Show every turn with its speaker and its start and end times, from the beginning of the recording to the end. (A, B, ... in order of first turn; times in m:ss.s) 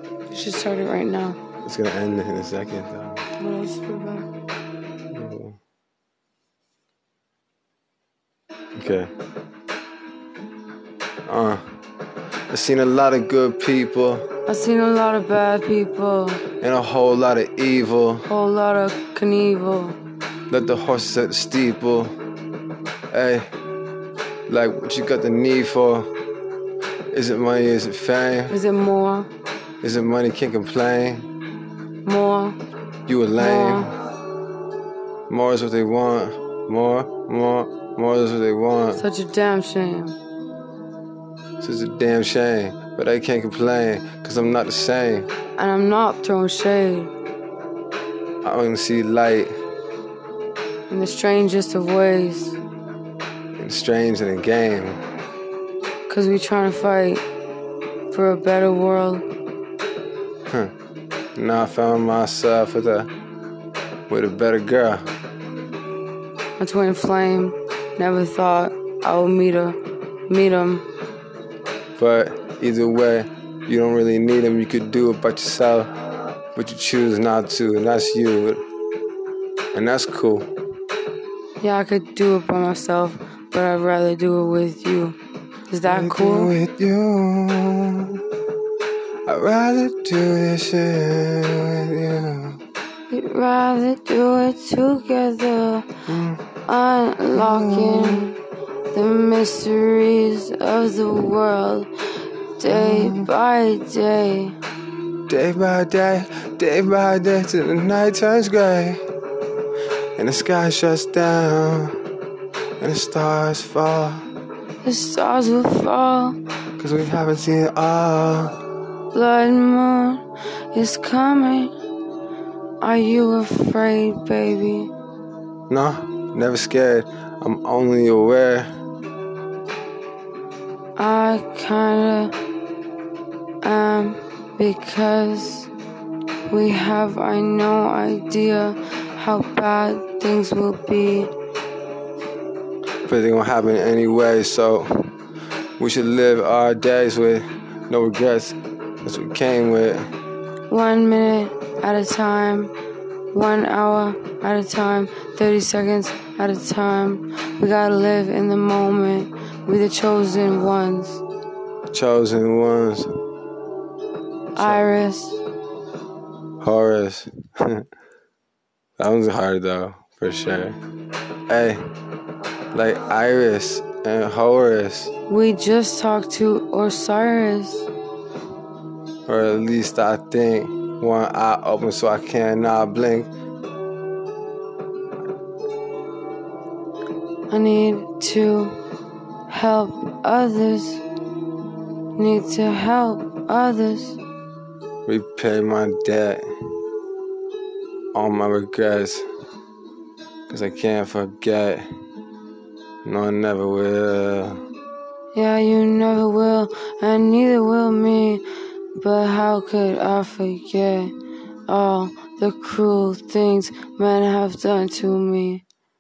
0:00.3-0:01.4 A
0:01.6-0:03.2 B
0:03.4-0:04.3 A
0:05.1-0:05.6 B
0:08.8-0:09.1 B
0:11.3-0:11.6 B
0:12.5-0:14.2 B
0:14.5-0:16.4 A
0:16.6-0:18.3 B
0:18.3-0:20.0 A
0:20.5-0:22.1 B
0:23.1-0:23.5 B
0:24.5-0:26.1 B
0:27.1-0:28.6 B
0:28.5-0:29.3 A
0:29.8-0:31.3 B
0:32.0-0:32.6 A
0:33.1-0:33.9 B
0:33.4-0:33.9 A
0:35.3-0:39.0 B
0:39.0-0:40.2 A
0:41.6-0:45.3 B
0:45.6-0:47.1 A
0:48.4-0:49.6 B
0:50.9-0:52.6 A
0:53.6-0:55.0 B
0:56.1-0:57.2 A
0:58.1-0:59.3 A
1:01.4-1:03.1 B
1:04.1-1:05.0 B
1:06.6-1:10.8 A
1:12.0-1:15.9 B
1:16.6-1:18.6 B
1:19.7-1:20.5 B
1:21.6-1:25.2 A
1:25.7-1:26.6 A
1:25.8-1:28.2 B
1:29.3-1:32.6 B
1:33.1-1:35.9 A
1:36.1-1:36.5 B
1:36.7-1:38.4 A
1:37.3-1:38.3 B
1:38.9-1:41.9 A
1:42.6-1:44.6 A
1:42.7-1:43.3 B
1:45.3-1:49.0 B
1:50.2-1:52.0 B
1:52.8-1:54.3 B
1:54.8-1:56.4 A
1:56.8-1:58.5 B
1:59.1-2:01.7 A
2:02.8-2:04.9 A
2:05.7-2:08.7 B
2:11.0-2:12.4 A
2:13.6-2:15.7 A
2:16.5-2:21.3 A
2:23.1-2:25.1 B
2:25.8-2:30.1 B
2:30.7-2:32.7 A
2:33.3-2:41.2 A
2:41.9-2:43.1 B
2:44.6-2:45.4 A
2:44.6-2:44.9 B
2:46.6-2:47.8 B
2:49.0-2:50.8 B
2:51.5-2:51.8 B
2:52.7-2:55.1 B
2:55.3-2:57.9 A
2:59.3-3:03.3 B
3:07.5-3:08.8 A
3:09.5-3:11.0 A
3:12.2-3:14.2 A
3:15.1-3:16.4 B
3:18.1-3:19.3 B
3:20.5-3:21.9 B
3:23.0-3:24.6 B
3:25.3-3:28.4 A
3:29.0-3:31.1 A
3:31.7-3:35.6 A